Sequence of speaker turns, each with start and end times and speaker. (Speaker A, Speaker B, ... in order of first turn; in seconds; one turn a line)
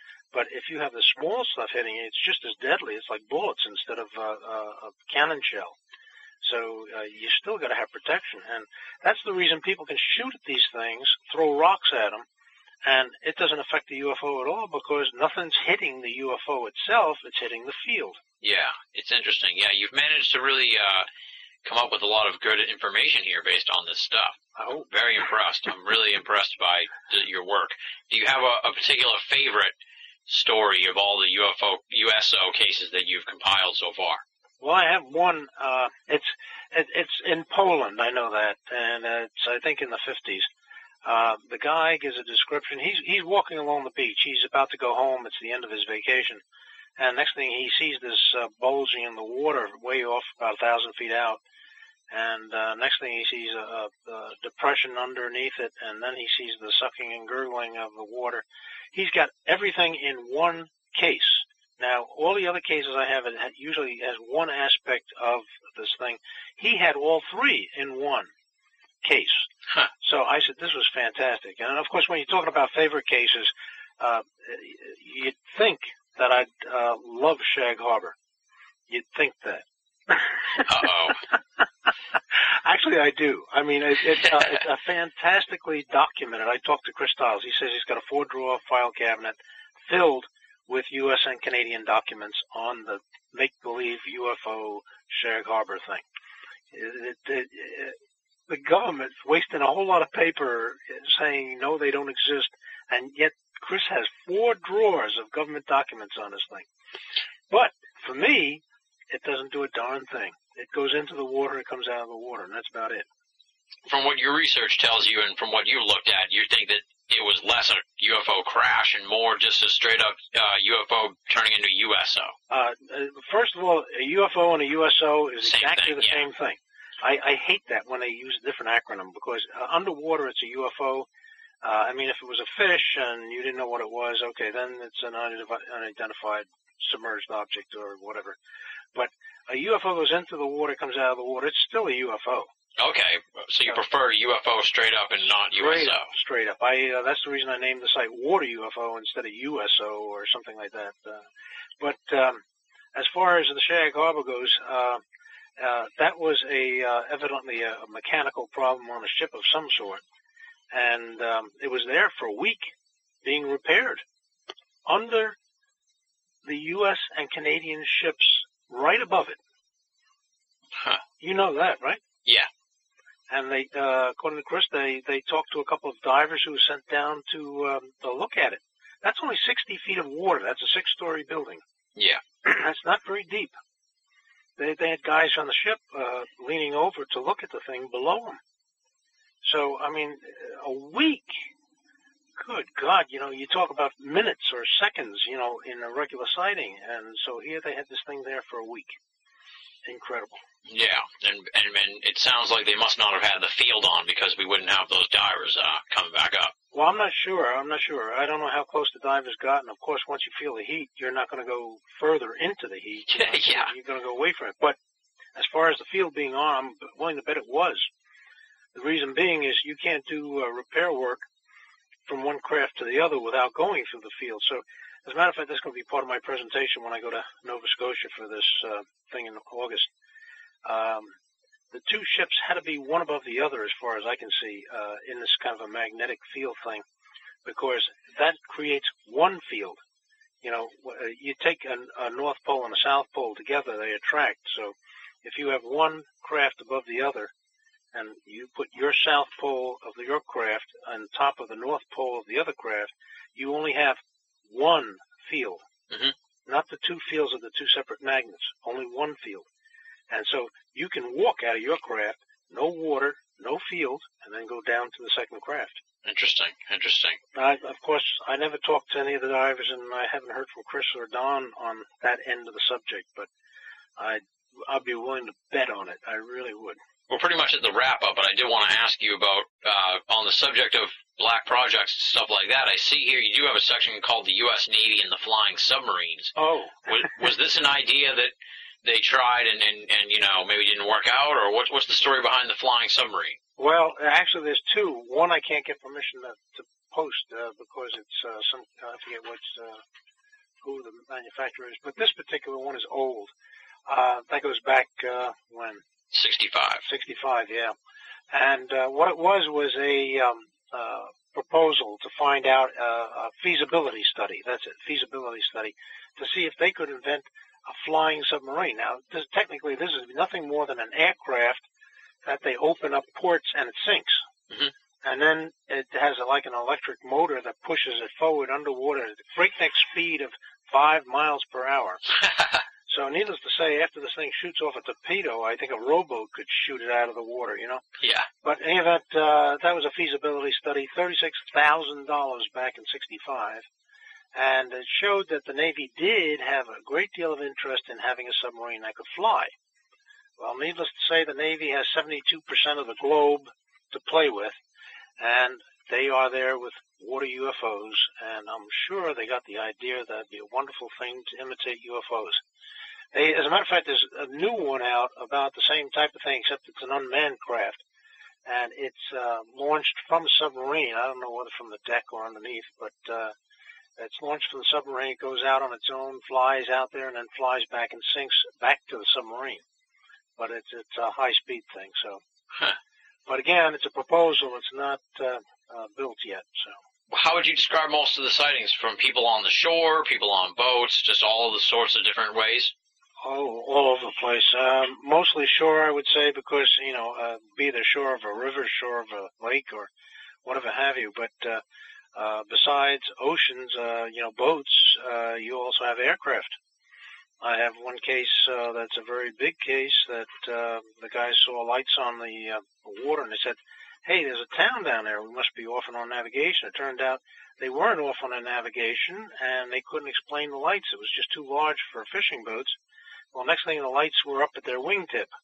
Speaker A: 0.3-5.8
Speaker A: 6.4-12.2
Speaker A: 12.8-18.2
Speaker B: 18.4-21.1
Speaker B: 21.6-29.8
Speaker B: 30.3-34.2
Speaker A: 34.6-40.5
Speaker A: 41.0-46.4
Speaker A: 47.0-51.4
Speaker A: 52.1-68.3
Speaker A: 69.0-78.2
Speaker A: 78.9-80.7
Speaker B: 80.7-81.2
Speaker A: 82.3-96.0
Speaker A: 96.7-98.0
Speaker A: 98.5-106.7
Speaker A: 107.5-113.1
Speaker B: 113.9-122.3
Speaker A: 122.5-131.1
Speaker B: 125.4-126.2
Speaker A: 131.6-138.4
Speaker A: 138.9-142.5
Speaker B: 142.8-146.1
Speaker A: 145.5-151.3
Speaker A: 151.8-152.4
Speaker A: 152.9-155.0
Speaker A: 155.6-160.0
Speaker A: 160.7-164.0
Speaker A: 164.9-165.4
Speaker A: 166.4-169.4
Speaker A: 171.2-172.0
Speaker A: 173.3-181.6
Speaker B: 182.0-182.2
Speaker A: 182.4-183.6
Speaker A: 184.6-188.4
Speaker A: 189.4-191.5
Speaker A: 192.4-199.0
Speaker A: 199.9-200.4
Speaker B: 200.7-206.5
Speaker A: 206.7-214.8
Speaker B: 213.1-213.7
Speaker A: 215.3-217.9
Speaker A: 218.7-221.2
Speaker A: 222.1-229.9
Speaker A: 230.6-231.2
Speaker A: 231.7-236.8
Speaker A: 237.4-239.8
Speaker A: 240.4-247.3
Speaker A: 247.9-255.6
Speaker B: 255.9-256.1
Speaker A: 256.5-259.5
Speaker A: 260.1-265.8
Speaker B: 266.0-267.2
Speaker A: 267.3-273.3
Speaker A: 274.0-276.8
Speaker B: 277.1-286.4
Speaker A: 286.4-287.2
Speaker B: 286.9-293.4
Speaker A: 293.6-299.8
Speaker A: 300.6-303.3
Speaker A: 303.9-305.8
Speaker B: 306.1-306.9
Speaker A: 306.8-307.8
Speaker A: 308.3-321.7
Speaker A: 322.2-324.2
Speaker A: 325.0-332.0
Speaker B: 332.2-332.6
Speaker A: 332.9-337.8
Speaker B: 338.0-338.3
Speaker A: 338.4-343.6
Speaker A: 344.3-349.5
Speaker A: 350.4-354.6
Speaker A: 355.2-362.4
Speaker A: 363.1-367.8
Speaker A: 368.5-373.3
Speaker A: 374.0-379.6
Speaker A: 380.4-382.2
Speaker A: 383.3-386.8
Speaker B: 387.1-392.7
Speaker A: 393.2-399.9
Speaker A: 400.4-401.6
Speaker A: 402.1-406.6
Speaker A: 407.4-422.8
Speaker A: 423.3-425.3